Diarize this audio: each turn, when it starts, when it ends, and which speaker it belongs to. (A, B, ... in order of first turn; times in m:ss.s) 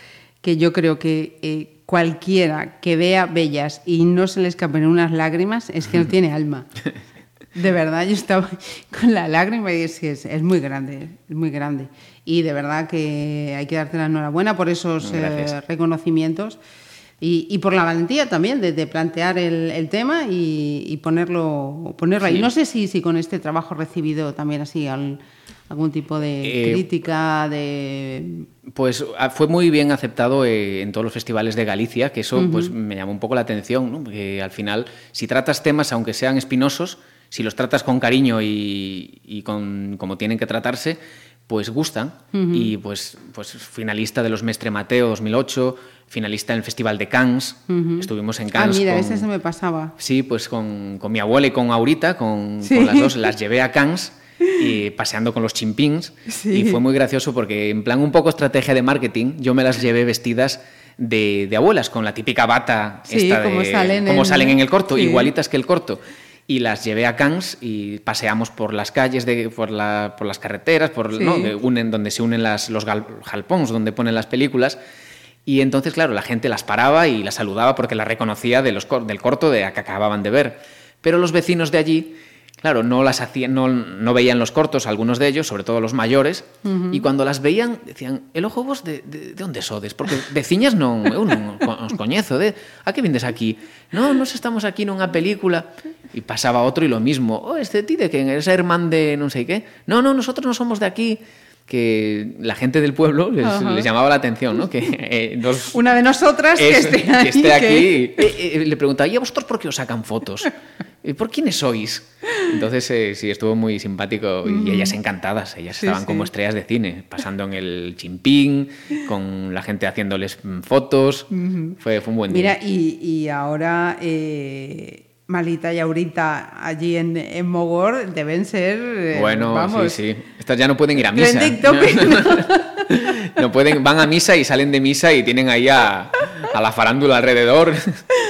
0:00.4-0:06.7 A
0:07.5-0:16.6 A
0:15.0-0:15.6 B
0:17.2-0:28.5 A
0:22.2-0:22.5 B
0:26.4-0:26.9 B
0:28.7-0:49.2 B
0:32.3-0:32.7 A
0:42.3-0:42.7 A
0:47.7-0:49.9 A
0:50.0-1:14.8 B
0:52.6-0:53.1 A
0:56.3-0:56.8 A
1:03.1-1:05.3 A
1:11.1-1:11.5 A
1:15.4-1:45.8 B
1:26.6-1:27.0 A
1:43.4-1:43.9 A
1:45.7-1:48.3 A
1:46.5-1:50.5 B
1:51.0-2:02.6 B
1:54.4-1:54.9 A
1:55.8-1:56.3 A
2:01.3-2:01.8 A
2:02.3-2:10.0 A
2:09.1-2:18.0 B
2:11.1-2:12.8 A